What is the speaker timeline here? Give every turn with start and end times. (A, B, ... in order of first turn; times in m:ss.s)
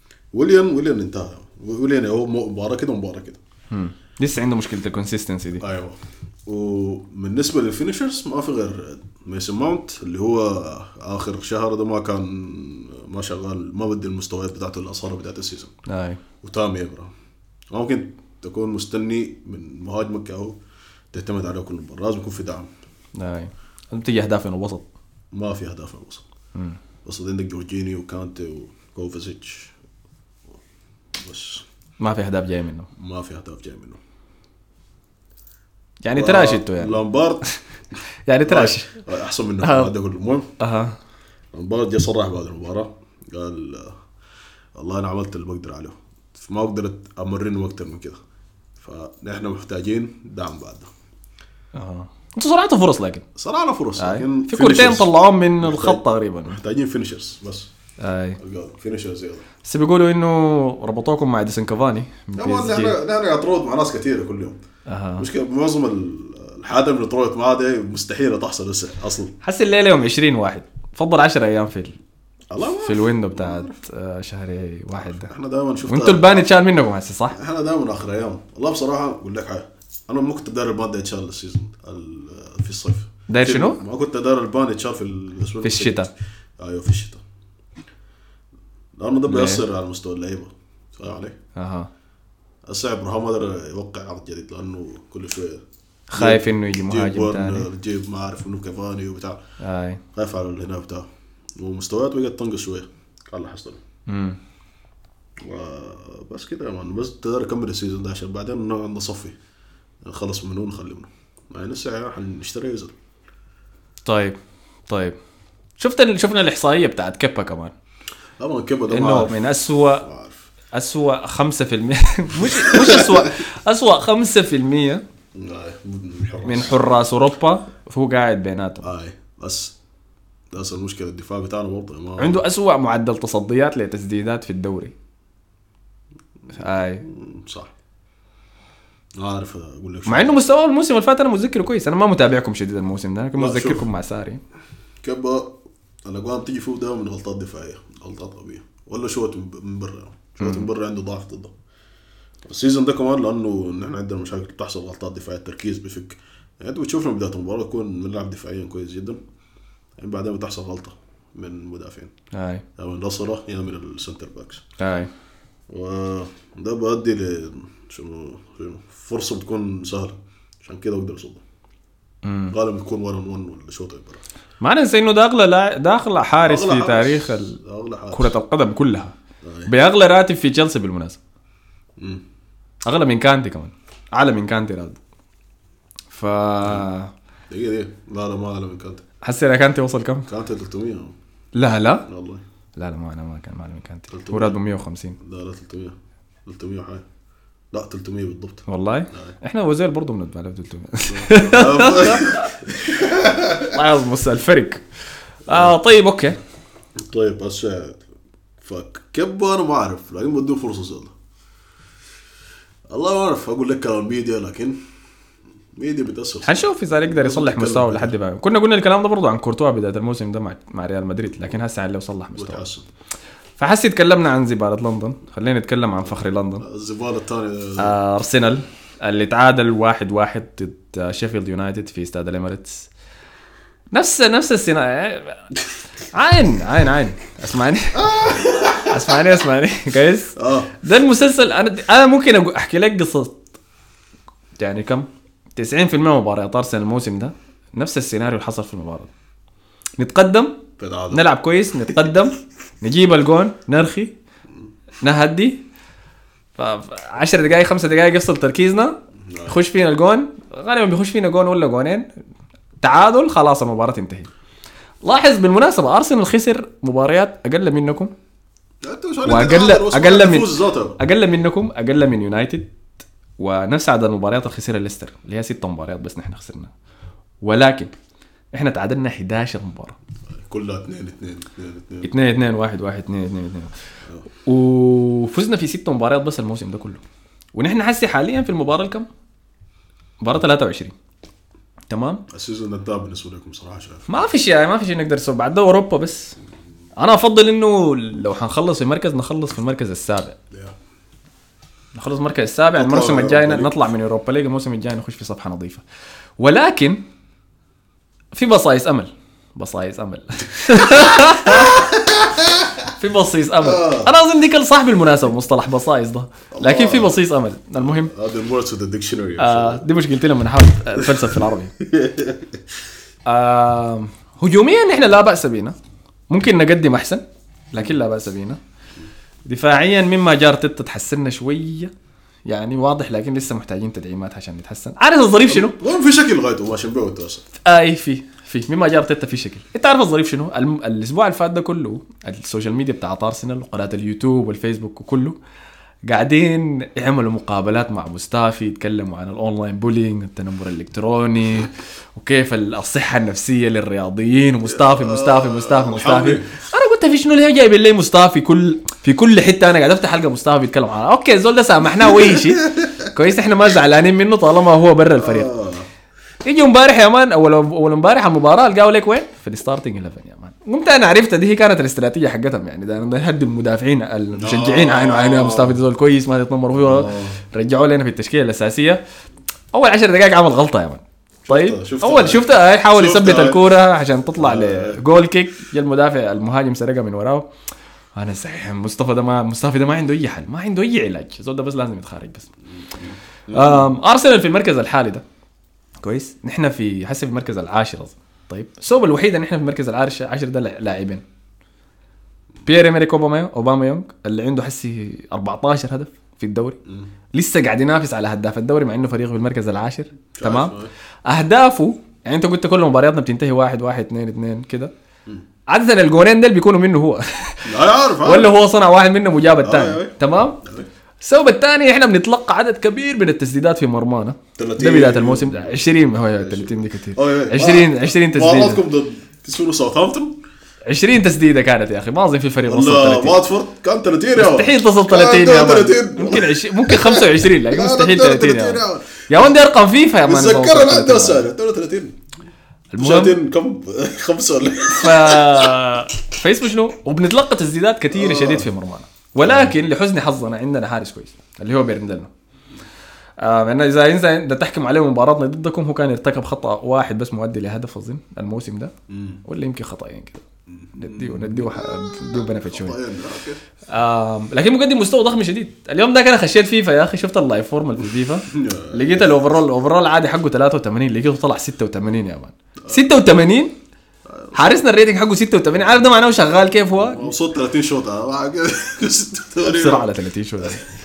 0:00.3-0:03.4 A
0:03.7-0:05.6 B
0:05.6-0:15.7 A
0:15.9-0:16.2 B
0:16.4-0:17.1 A
0:17.7-0:20.6 A
0:21.1-0:22.7 A
0:23.2-0:24.9 B
0:25.3-0:26.2 A
0:27.0-0:29.7 A
0:31.2-0:31.7 A
0:32.0-0:32.9 B
0:33.0-0:34.0 A
0:36.0-0:37.6 B
0:36.1-0:37.4 A
0:38.3-0:39.0 B
0:38.4-0:40.5 A
0:39.6-0:39.9 B
0:40.6-0:41.0 B
0:41.5-0:44.0 A
0:44.8-0:48.2 A
0:48.8-0:50.9 A
0:51.7-0:53.3 B
0:53.4-0:57.7 A
0:54.0-0:56.6 B
0:58.0-0:58.4 B
0:58.4-0:59.4 A
0:59.6-1:03.0 B
1:02.4-1:04.6 A
1:04.9-1:05.3 B
1:05.2-1:09.4 A
1:09.4-1:12.0 B
1:12.5-1:13.8 A
1:12.6-1:15.3 B
1:15.0-1:16.6 A
1:15.8-1:17.4 B
1:17.3-1:26.0 A
1:23.3-1:23.8 B
1:25.6-1:26.1 B
1:26.6-1:27.2 A
1:29.0-1:31.4 A
1:29.3-1:29.6 B
1:31.6-1:31.9 B
1:32.7-1:35.6 A
1:36.1-1:37.7 B
1:36.2-1:39.4 A
1:39.6-1:40.0 B
1:40.1-1:43.8 A
1:44.1-1:44.4 B
1:45.4-1:49.4 A
1:50.0-1:52.9 A
1:54.0-1:54.4 B
1:54.9-1:55.2 B
1:55.8-1:57.7 B
1:58.4-1:59.4 A
1:58.9-2:00.1 B
2:00.0-2:00.5 A
2:00.7-2:05.0 B
2:02.4-2:03.4 A
2:05.4-2:06.8 A
2:06.4-2:08.9 B
2:08.8-2:09.8 A
2:10.5-2:12.4 A
2:12.2-2:14.9 B
2:16.5-2:17.0 B
2:17.0-2:17.7 A
2:19.2-2:20.4 A
2:20.1-2:24.4 B
2:23.4-2:23.9 A
2:25.0-2:31.5 A
2:30.4-2:30.7 B
2:32.5-2:39.2 A
2:40.0-2:42.1 A
2:42.3-2:42.6 B
2:42.8-2:44.6 A
2:44.8-2:45.1 B
2:45.7-2:51.4 A
2:52.2-2:52.6 B
2:52.5-2:54.2 A
2:54.6-2:57.6 B
2:56.4-2:58.4 A
2:58.1-2:59.2 B
2:59.4-2:59.7 A
2:59.7-3:01.2 B
3:02.0-3:02.2 A
3:02.8-3:05.0 B
3:06.1-3:07.1 B
3:07.5-3:09.0 A
3:09.2-3:10.3 B
3:10.3-3:11.2 A
3:11.6-3:12.1 B
3:12.1-3:12.4 A
3:12.8-3:15.2 B
3:14.1-3:14.6 A
3:15.2-3:16.0 A
3:16.5-3:17.0 A
3:17.7-3:19.4 A
3:18.7-3:22.6 B
3:21.1-3:23.8 A
3:23.6-3:24.8 B
3:25.5-3:26.4 B
3:25.5-3:25.8 A
3:27.0-3:28.0 A
3:28.6-3:31.1 A
3:32.9-3:34.8 A
3:35.8-3:38.2 A
3:36.4-3:42.6 B
3:42.3-3:42.8 A
3:43.6-3:46.7 B
3:46.1-3:48.0 A
3:47.8-3:52.9 B
3:53.9-3:55.4 B
3:56.1-3:58.2 B
3:58.0-3:59.2 A
3:58.8-4:03.4 B
4:00.4-4:00.7 A
4:04.6-4:09.1 B
4:10.0-4:14.1 B
4:10.8-4:11.3 A
4:15.0-4:15.6 B
4:16.6-4:22.1 B
4:19.3-4:19.6 A
4:22.8-4:24.3 B
4:25.0-4:28.1 B
4:28.8-4:31.0 A
4:29.2-4:32.7 B
4:33.4-4:36.7 B
4:37.4-4:37.9 B
4:38.5-4:40.0 B
4:40.3-4:42.1 A
4:42.0-4:43.7 B
4:44.4-4:47.0 B
4:47.6-4:49.1 B
4:50.2-4:50.9 B
4:51.9-4:52.2 B
4:52.3-4:54.3 A
4:54.1-4:56.4 B
4:57.0-5:00.4 B
5:00.5-5:00.8 A
5:02.0-5:05.8 B
5:02.8-5:03.8 A
5:06.4-5:07.0 B
5:08.3-5:11.9 B
5:10.9-5:12.9 A
5:13.0-5:18.1 B
5:13.6-5:14.1 A
5:16.5-5:17.2 A
5:17.8-5:19.8 A
5:19.4-5:21.7 B
5:21.0-5:22.6 A
5:23.3-5:25.8 B
5:26.3-5:28.6 B
5:29.4-5:31.9 B
5:32.5-5:35.8 B
5:35.5-5:37.4 A
5:37.6-5:45.4 B
5:46.1-6:05.5 B
5:54.7-5:56.5 A
6:02.0-6:03.1 A
6:05.2-6:05.9 A
6:06.4-6:19.0 B
6:14.4-6:15.8 A
6:16.8-6:17.4 A
6:19.7-6:27.5 B
6:21.5-6:23.6 A
6:24.4-6:25.0 A
6:28.2-6:32.5 B
6:32.8-6:33.9 A
6:33.5-6:35.2 B
6:36.0-6:41.2 B
6:42.6-6:46.8 B
6:47.3-6:50.7 B
6:50.4-6:50.9 A
6:51.3-6:54.9 B
6:55.7-7:00.6 B
6:57.7-6:58.5 A
6:59.6-7:00.9 A
7:01.2-7:08.8 B
7:04.6-7:10.4 A
7:10.9-7:13.4 B
7:12.7-7:19.2 A
7:14.4-7:21.5 B
7:20.2-7:22.2 A
7:22.9-7:23.4 B
7:23.0-7:25.8 A
7:24.9-7:32.3 B
7:28.1-7:28.7 A
7:29.4-7:29.8 A
7:33.4-7:38.9 B
7:39.1-7:39.4 A
7:39.4-7:40.4 B
7:40.7-7:43.6 A
7:41.0-7:43.0 B
7:43.9-7:53.7 B
7:48.5-7:49.4 A
7:54.3-7:54.8 A
7:54.5-7:57.3 B
7:57.0-8:00.1 A
7:59.6-8:00.8 B